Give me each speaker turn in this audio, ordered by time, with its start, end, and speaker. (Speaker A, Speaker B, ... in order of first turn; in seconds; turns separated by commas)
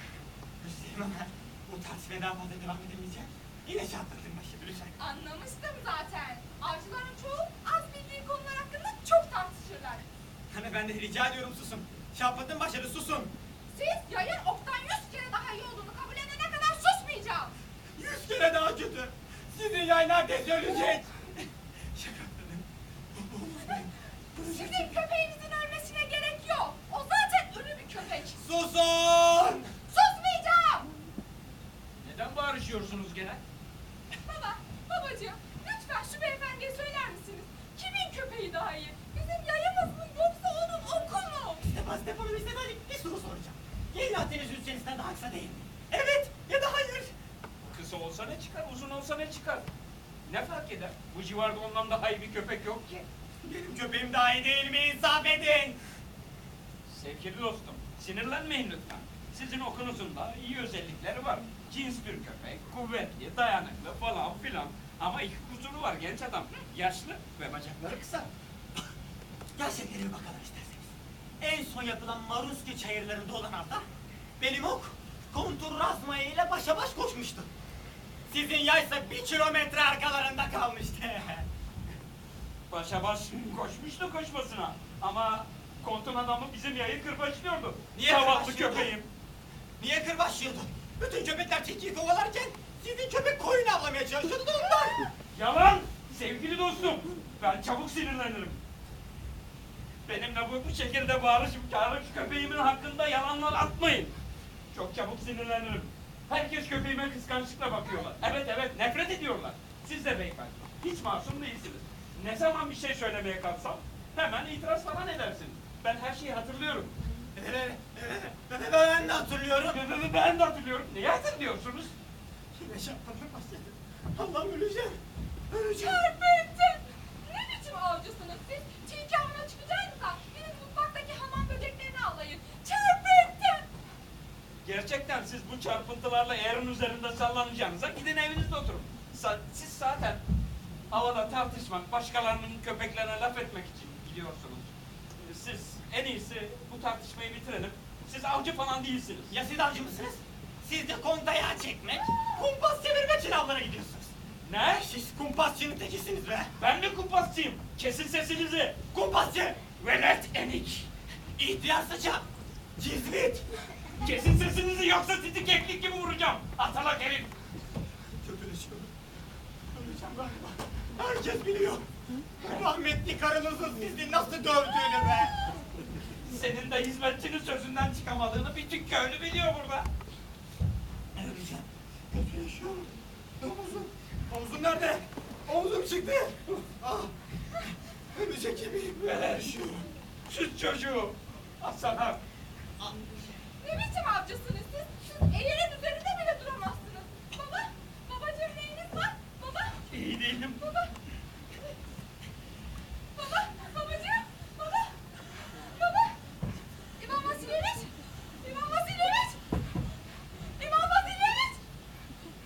Speaker A: 0.6-5.0, Speaker B: 5.0-10.1, Speaker A: 10.5-13.3, Speaker B: 13.7-17.5, Speaker A: 17.9-25.0, Speaker B: 24.4-28.4, Speaker A: 28.3-29.7, Speaker B: 29.9-30.9, Speaker C: 32.0-33.4, Speaker B: 34.2-41.6, Speaker A: 41.6-47.1, Speaker C: 47.7-49.7, Speaker C: 50.2-53.0, Speaker A: 53.4-55.8, Speaker C: 56.9-68.3, Speaker A: 69.5-73.8, Speaker A: 74.4-77.5, Speaker A: 78.3-81.5, Speaker C: 82.7-89.1, Speaker A: 87.9-88.9, Speaker A: 89.8-95.0, Speaker C: 95.3-98.6, Speaker C: 100.0-104.2, Speaker C: 104.7-116.9, Speaker A: 117.3-119.8, Speaker C: 119.6-121.9, Speaker A: 122.5-125.0, Speaker A: 125.5-126.1, Speaker B: 125.7-133.7, Speaker C: 134.6-140.2, Speaker C: 140.9-149.3, Speaker A: 149.3-154.1, Speaker C: 154.4-154.9, Speaker A: 154.7-156.5, Speaker C: 156.6-158.8, Speaker A: 158.9-159.6, Speaker C: 159.8-160.9, Speaker A: 161.4-162.2, Speaker A: 162.8-163.4, Speaker C: 164.0-167.3, Speaker A: 168.2-168.9, Speaker A: 169.7-171.8, Speaker A: 172.4-175.3, Speaker C: 176.2-179.9, Speaker A: 181.1-189.9, Speaker C: 190.3-192.2, Speaker B: 193.6-199.9, Speaker C: 199.9-200.7, Speaker B: 200.6-200.9, Speaker B: 203.1-204.9, Speaker B: 205.5-206.2, Speaker B: 207.0-209.4, Speaker B: 210.6-211.6